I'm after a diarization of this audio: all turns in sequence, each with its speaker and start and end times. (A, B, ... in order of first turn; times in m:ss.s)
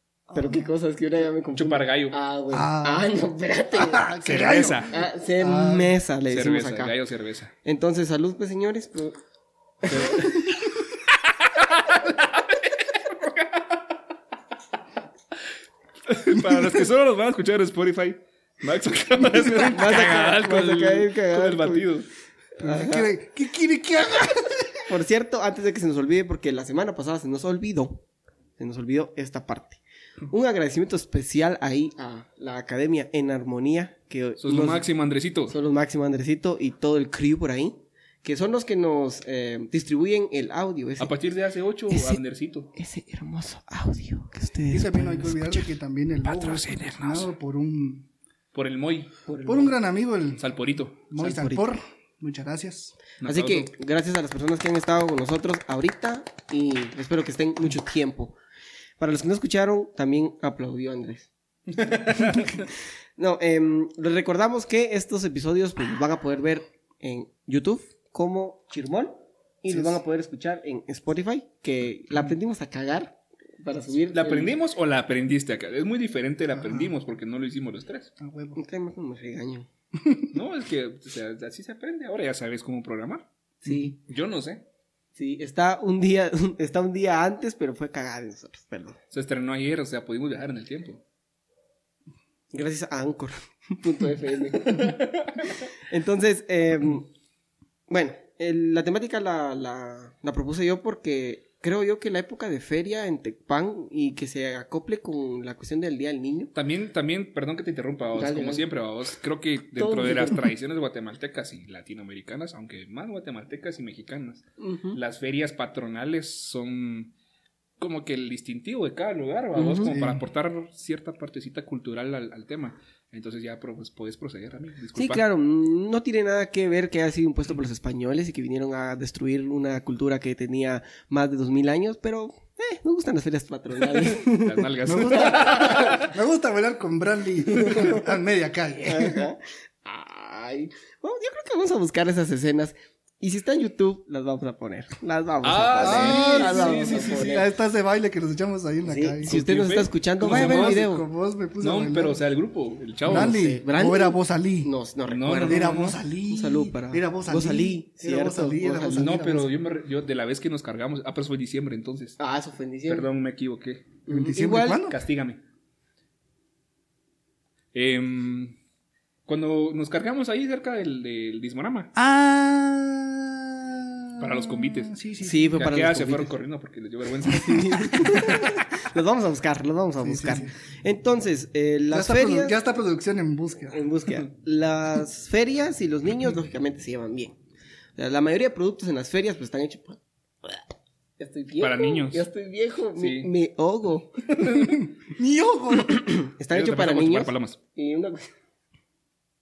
0:00.3-0:00.7 A
0:00.3-0:07.0 B
0:01.6-0:02.2 C
0:02.5-0:03.1 A
0:03.7-0:05.9 A
0:04.2-0:04.9 C
0:06.3-0:07.5 C
0:07.6-0:09.2 B
0:09.8-0:10.6 B
0:09.9-0:10.5 C
0:11.2-0:13.8 C
0:16.1-0:22.1 C
0:16.4-0:16.9 A
0:19.4-0:22.0 B
0:22.6-0:23.1 B
0:22.6-0:24.9 A
0:24.9-0:28.0 B
0:28.6-0:34.9 B
0:34.4-0:35.6 C
0:35.5-0:41.1 B
0:41.0-0:42.7 C
0:41.9-0:42.2 B
0:42.8-0:45.7 B
0:44.7-0:48.1 A
0:46.2-0:47.3 C
0:48.5-0:49.1 C
0:49.3-0:49.8 B
0:49.5-0:50.4 A
0:50.4-0:51.1 C
0:51.1-0:53.0 A
0:51.2-0:51.7 B
0:53.2-0:53.7 C
0:53.2-0:58.4 B
0:59.0-1:01.3 B
1:01.9-1:02.3 C
1:02.1-1:14.6 B
1:14.1-1:18.1 C
1:16.5-1:16.9 A
1:18.2-1:18.6 A
1:18.6-1:19.7 B
1:20.0-1:20.3 A
1:20.3-1:23.3 C
1:23.6-1:24.0 B
1:23.7-1:23.9 A
1:24.1-1:24.6 C
1:25.2-1:29.0 B
1:29.1-1:31.0 C
1:32.5-1:37.1 B
1:37.9-1:46.5 B
1:46.5-1:57.1 C
1:48.2-1:48.7 B
1:49.8-1:50.4 B
1:54.6-1:55.0 B
1:57.8-2:05.2 C
1:59.6-2:00.0 B
1:59.8-2:00.2 A
2:05.0-2:16.0 B
2:14.3-2:16.1 C
2:14.9-2:19.3 A
2:17.5-2:18.0 B
2:18.8-2:27.5 B
2:25.4-2:27.4 C
2:25.8-2:29.3 A
2:28.8-2:31.0 B
2:29.3-2:30.8 C
2:30.2-2:32.2 A
2:31.6-2:33.4 C
2:33.1-2:34.7 A
2:33.1-2:39.2 B
2:35.1-2:36.0 C
2:35.5-2:39.5 A
2:38.9-2:42.2 C
2:42.2-2:43.1 B
2:42.9-2:43.9 C
2:44.1-2:44.9 B
2:44.1-2:45.0 A
2:44.9-2:45.4 C
2:47.7-2:48.6 C
2:49.3-2:51.9 C
2:52.0-2:55.7 A
2:54.2-2:54.9 C
2:55.2-2:56.3 B
2:55.6-2:58.3 C
2:57.3-3:02.6 B
2:58.0-2:58.6 A
3:00.0-3:00.5 A
3:01.9-3:03.8 A
3:03.7-3:07.4 B
3:08.0-3:10.6 B
3:11.2-3:14.4 B
3:11.6-3:12.2 C
3:13.0-3:13.3 C
3:14.3-3:14.8 C
3:15.0-3:16.0 A
3:15.9-3:18.3 B
3:16.5-3:17.6 C